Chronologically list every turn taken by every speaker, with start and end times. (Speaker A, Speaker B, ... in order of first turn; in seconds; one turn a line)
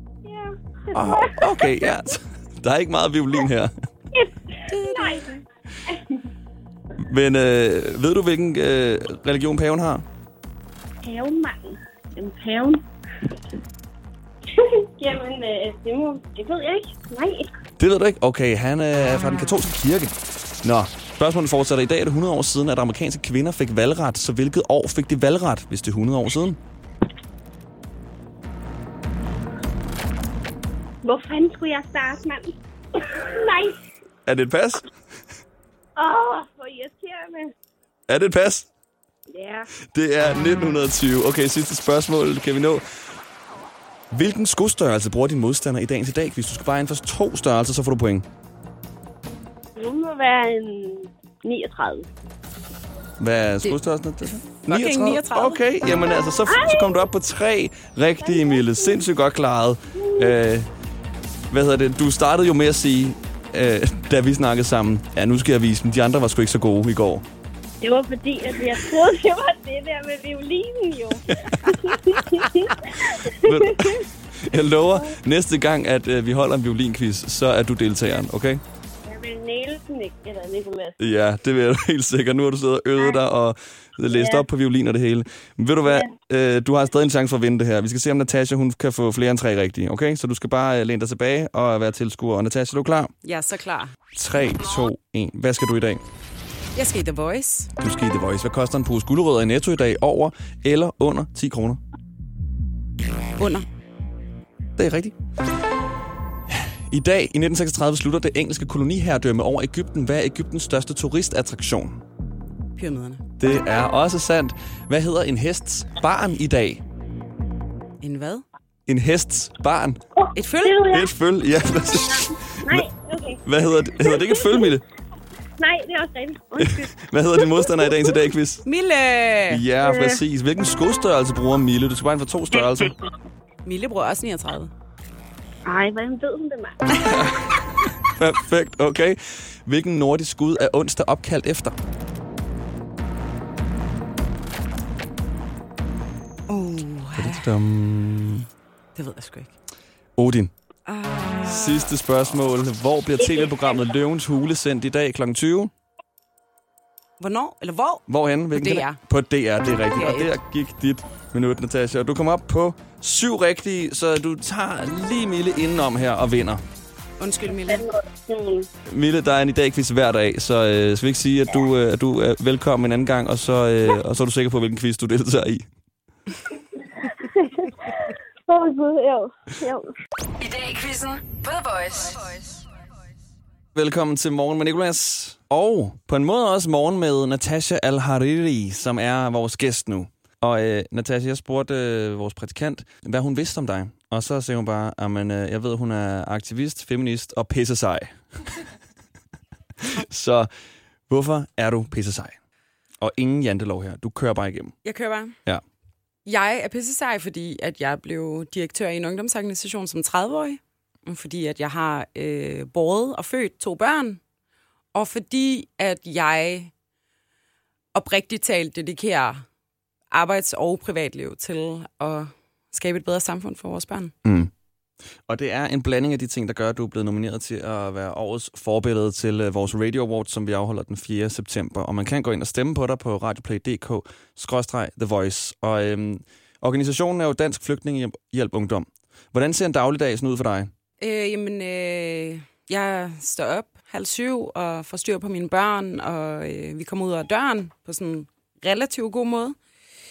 Speaker A: 0.2-1.9
Speaker B: 0.9-3.7
Speaker A: 4.1-6.0
Speaker B: 7.0-10.1
Speaker A: 11.0-12.8
Speaker A: 14.6-17.5
Speaker B: 17.8-26.6
Speaker A: 31.0-32.5
Speaker A: 33.1-33.8
Speaker B: 34.3-34.8
Speaker A: 36.0-37.5
Speaker B: 38.1-38.7
Speaker A: 39.3-39.7
Speaker B: 39.9-42.8
Speaker B: 44.1-48.3
Speaker A: 49.8-52.1
Speaker B: 53.2-60.7
Speaker C: 54.5-55.6
Speaker A: 56.5-57.0
Speaker A: 58.2-59.1
Speaker A: 60.0-60.4
Speaker B: 61.5-67.2
Speaker A: 67.8-74.0
Speaker B: 71.3-71.8
Speaker B: 73.3-78.6
Speaker A: 79.0-81.0
Speaker B: 81.0-93.1
Speaker A: 84.1-84.5
Speaker C: 93.2-93.9
Speaker B: 94.1-96.0
Speaker D: 94.6-94.9
Speaker C: 96.8-97.7
Speaker B: 97.8-101.8
Speaker C: 103.4-103.7
Speaker B: 104.8-105.1
Speaker B: 106.5-112.0
Speaker C: 112.8-113.3
Speaker B: 113.4-116.8
Speaker C: 118.0-118.5
Speaker B: 118.9-120.0
Speaker A: 120.2-121.1
Speaker C: 120.3-120.9
Speaker B: 120.9-122.9
Speaker A: 122.0-123.4
Speaker B: 123.5-124.8
Speaker A: 124.0-124.7
Speaker A: 125.6-127.6
Speaker B: 126.6-128.6
Speaker C: 128.7-129.6
Speaker B: 129.5-132.9
Speaker A: 129.8-130.2
Speaker C: 133.7-134.7
Speaker A: 135.7-137.2
Speaker B: 137.0-137.5
Speaker B: 138.1-141.8
Speaker C: 146.5-147.4
Speaker B: 147.2-148.5
Speaker C: 148.9-149.6
Speaker B: 150.2-150.5
Speaker C: 150.9-151.9
Speaker B: 151.4-155.7
Speaker C: 157.2-159.0
Speaker B: 158.1-166.6
Speaker C: 159.9-160.3
Speaker C: 167.2-167.9
Speaker A: 167.7-168.7
Speaker B: 168.9-175.7
Speaker A: 178.5-179.9
Speaker D: 180.4-182.6
Speaker B: 183.8-198.7
Speaker B: 200.0-200.5
Speaker B: 201.1-202.4
Speaker B: 203.0-204.8
Speaker C: 204.8-205.4
Speaker C: 206.3-214.2
Speaker C: 214.9-216.7
Speaker C: 217.9-219.4
Speaker C: 220.1-224.1
Speaker B: 224.2-224.5
Speaker B: 225.3-240.7
Speaker C: 241.0-249.6